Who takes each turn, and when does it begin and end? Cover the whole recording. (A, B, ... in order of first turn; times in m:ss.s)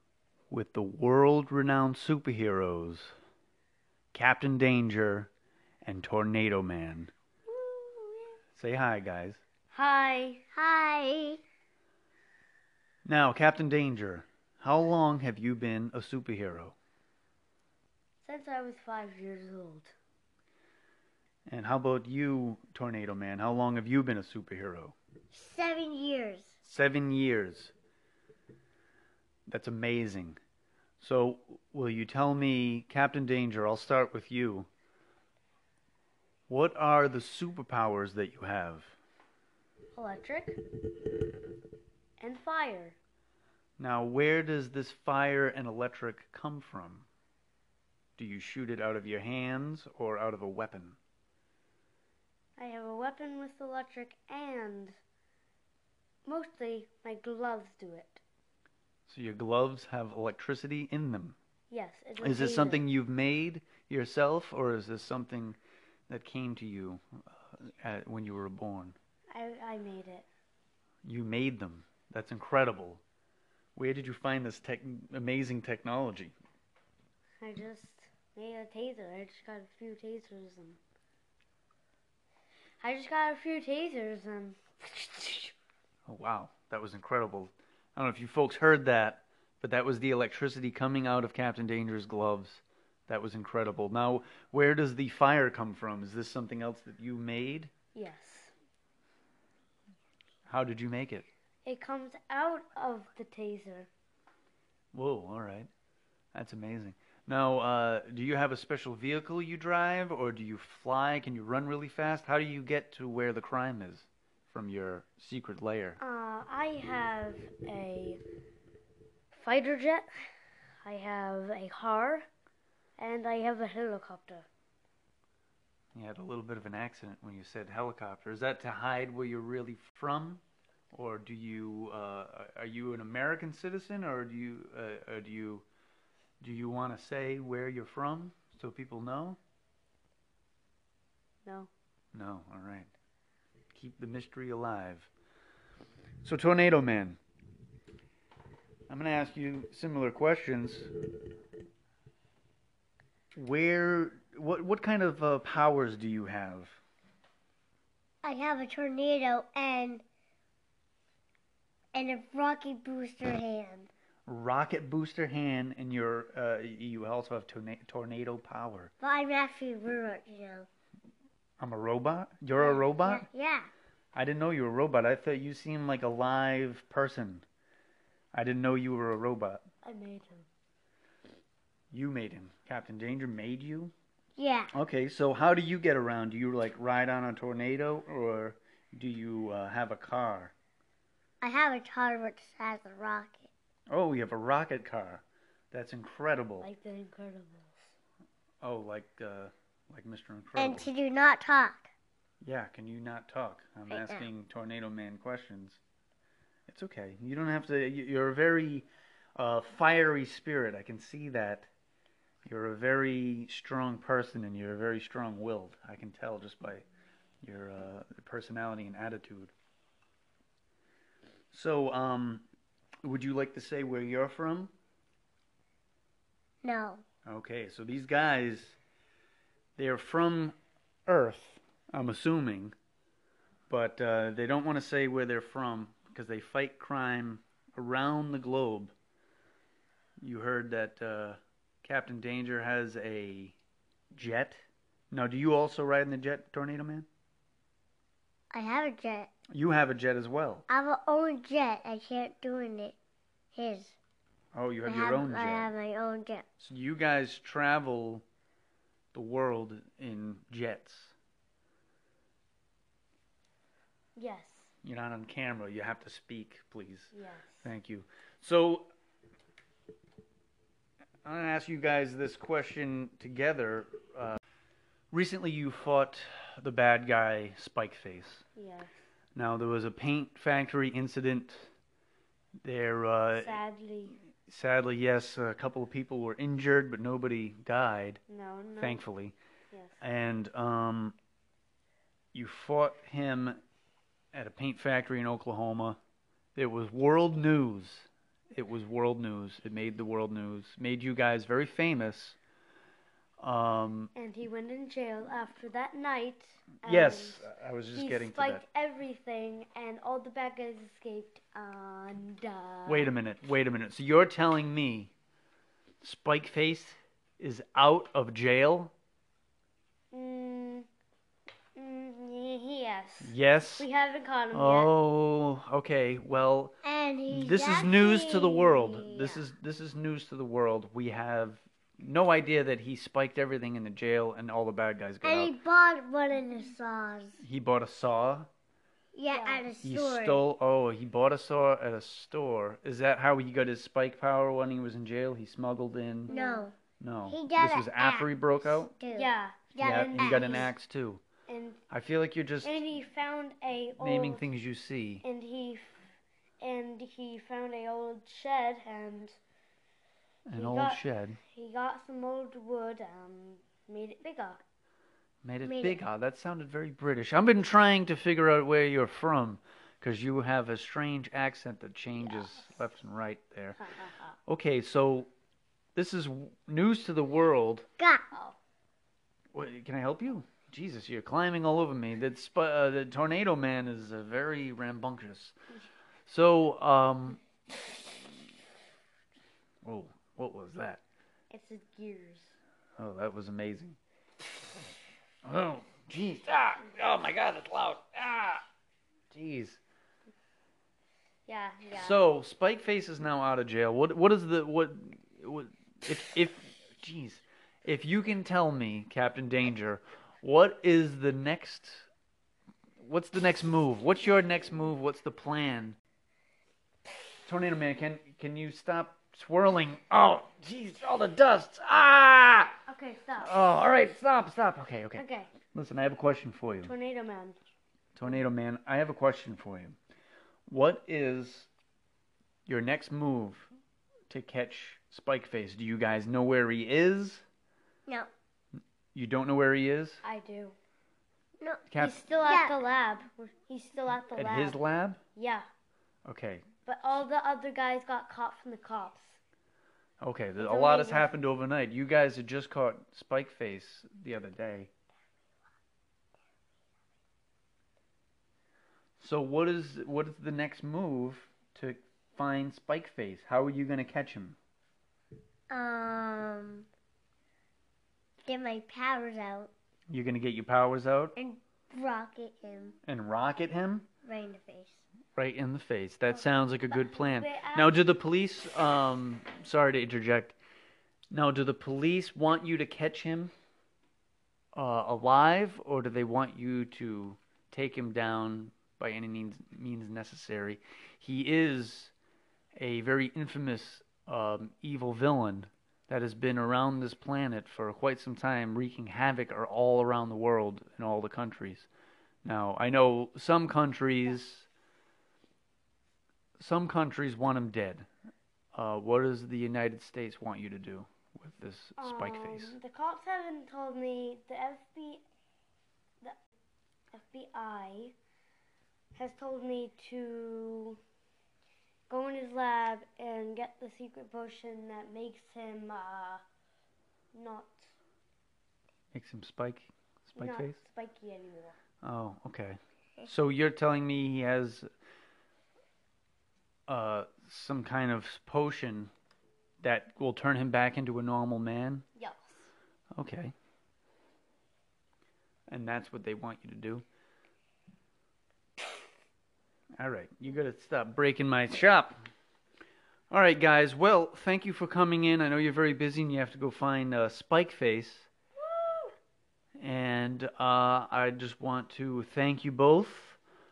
0:00.5-0:03.2 A
0:04.1-0:05.3 A
0:05.8-0:07.1 A
0:07.5-0:08.3 B
0:08.6-0:09.4 A
0:09.7-0:10.4 B
0:10.5-0:11.4 C
0:13.0-0:16.8 A
0:18.2-0:19.9 B
0:21.5-0:25.0 A
0:25.3-0:26.6 C
0:26.6-0:27.7 A
0:29.5-0:30.4 A
0:31.0-0:34.7 A
0:36.5-0:39.0 A
0:39.9-0:40.6 B
0:42.2-0:43.0 B
0:43.8-0:47.1 A
0:48.2-0:51.0 A
0:52.6-0:55.0 B
0:56.3-0:58.2 B
0:59.1-1:01.4 A
1:01.7-1:02.9 B
1:02.2-1:05.6 A
1:06.1-1:09.0 A
1:09.3-1:10.3 B
1:11.0-1:13.0 A
1:13.8-1:16.4 A
1:17.4-1:20.8 B
1:22.8-1:25.5 B
1:26.1-1:37.7 A
1:38.0-1:38.5 B
1:40.5-1:41.3 A
1:41.6-1:43.9 B
1:44.9-1:45.7 A
1:46.3-1:56.0 A
1:56.0-1:58.2 B
1:59.3-2:00.1 B
2:00.8-2:02.3 B
2:03.0-2:04.5 B
2:05.9-2:15.7 A
2:16.4-2:19.4 A
2:21.5-2:21.7 B
2:22.1-2:22.9 A
2:23.7-2:25.1 A
2:26.2-2:27.2 A
2:28.9-2:30.9 A
2:33.3-2:36.8 A
2:38.2-2:40.0 C
2:41.9-2:43.9 C
2:44.3-2:48.9 A
2:49.0-2:50.7 C
2:51.6-2:53.3 A
2:52.6-2:53.7 C
2:54.1-2:57.5 A
2:58.3-2:59.6 A
2:59.8-3:00.5 B
3:01.9-3:03.9 A
3:04.4-3:04.7 C
3:04.7-3:10.5 A
3:11.4-3:13.5 C
3:13.9-3:16.7 A
3:16.6-3:17.9 B
3:18.6-3:20.9 A
3:20.6-3:21.9 C
3:22.4-3:25.8 A
3:23.9-3:24.3 C
3:26.7-3:31.7 A
3:32.4-3:36.8 A
3:37.4-3:39.5 A
3:41.5-3:42.4 A
3:43.0-3:44.7 A
3:46.6-3:47.0 C
3:47.3-3:48.8 A
3:49.8-3:50.6 A
3:51.1-3:52.8 A
3:53.7-3:58.9 A
4:00.2-4:03.6 A
4:04.1-4:07.1 A
4:08.5-4:09.3 C
4:09.5-4:10.7 A
4:10.7-4:13.0 C
4:13.5-4:14.0 C
4:14.5-4:15.7 A
4:14.8-4:16.5 C
4:16.6-4:18.2 A
4:19.1-4:21.2 A
4:24.2-4:24.7 B
4:24.8-4:27.1 A
4:27.1-4:27.7 B
4:27.6-4:28.9 A
4:31.2-4:34.4 A
4:35.1-4:38.4 A
4:38.6-4:38.9 B
4:39.4-4:41.7 A
4:42.6-4:43.6 A
4:43.3-4:44.2 B
4:44.3-4:48.2 A
4:48.3-4:49.0 B
4:48.8-4:49.4 A
4:49.7-4:50.0 B
4:50.0-4:51.2 A
4:52.3-4:53.6 A
4:54.3-4:56.0 A
4:56.6-5:02.4 A
5:03.4-5:04.1 A
5:04.2-5:13.1 B
5:06.8-5:08.6 A
5:12.9-5:15.1 A
5:16.0-5:18.9 A
5:20.1-5:20.9 B
5:21.8-5:24.9 B
5:23.2-5:23.9 A
5:24.5-5:26.8 A
5:26.8-5:29.4 C
5:27.3-5:35.6 A
5:35.2-5:37.4 C
5:37.4-5:38.5 A
5:39.1-5:40.4 C
5:39.3-5:39.7 B
5:39.8-5:46.3 A
5:46.3-5:46.7 B
5:46.3-5:46.7 C
5:47.0-5:48.9 A
5:47.3-5:50.7 C
5:49.1-5:50.7 B
5:49.8-5:51.2 A
5:51.5-5:51.8 B
5:51.9-5:52.8 A
5:52.6-5:54.5 B
5:54.0-5:55.2 A
5:55.2-5:56.1 B
5:56.6-5:59.4 B
6:00.5-6:01.4 A
6:00.5-6:04.6 B
6:05.4-6:13.9 A
6:05.6-6:06.0 C
6:12.2-6:12.7 B
6:13.8-6:14.3 B
6:14.5-6:15.3 A
6:16.0-6:17.9 A
6:18.0-6:18.3 C
6:19.5-6:25.6 A
6:26.3-6:27.4 A
6:29.8-6:31.0 A
6:31.5-6:32.6 B
6:33.0-6:34.0 A
6:35.4-6:38.6 A
6:39.3-6:39.8 A
6:41.5-6:42.2 B
6:42.0-6:52.1 A
6:53.0-6:56.0 A
6:57.4-7:02.8 A
7:02.9-7:03.5 B
7:03.4-7:06.9 A
7:05.2-7:05.5 B
7:06.8-7:07.6 B
7:08.2-7:10.0 A
7:10.7-7:11.7 A
7:12.7-7:13.7 A
7:14.3-7:17.4 A
7:19.1-7:20.2 A
7:20.2-7:20.8 B
7:21.6-7:21.9 C
7:21.9-7:22.2 A
7:22.0-7:24.8 B
7:22.4-7:22.8 C
7:24.4-7:25.2 A
7:25.4-7:25.7 B
7:26.2-7:26.7 A
7:26.9-7:29.4 B
7:30.2-7:34.9 A
7:30.6-7:31.3 B
7:39.2-7:44.6 A
7:45.7-7:46.9 C
7:48.4-7:49.7 C
7:50.1-7:51.4 A
7:51.4-7:53.0 C
7:53.1-7:54.1 A
7:54.2-7:55.0 C
7:55.4-8:00.6 A
7:56.9-7:58.0 B
8:01.3-8:03.5 A
8:04.8-8:12.1 A
8:12.8-8:21.9 A
8:22.4-8:24.7 A
8:26.6-8:28.1 A
8:28.7-8:32.8 A
8:32.0-8:35.2 B
8:37.1-8:38.2 B
8:39.2-8:41.0 B
8:42.1-8:46.4 B
8:47.3-8:47.9 B
8:49.1-8:50.8 A
8:50.3-8:51.8 B
8:52.0-8:54.9 A
8:56.9-8:59.1 A
8:59.8-9:02.0 A
9:02.2-9:02.7 B
9:03.2-9:03.5 A
9:05.7-9:07.0 A
9:10.0-9:12.2 A
9:13.3-9:18.3 A
9:18.8-9:19.1 B
9:19.8-9:23.4 A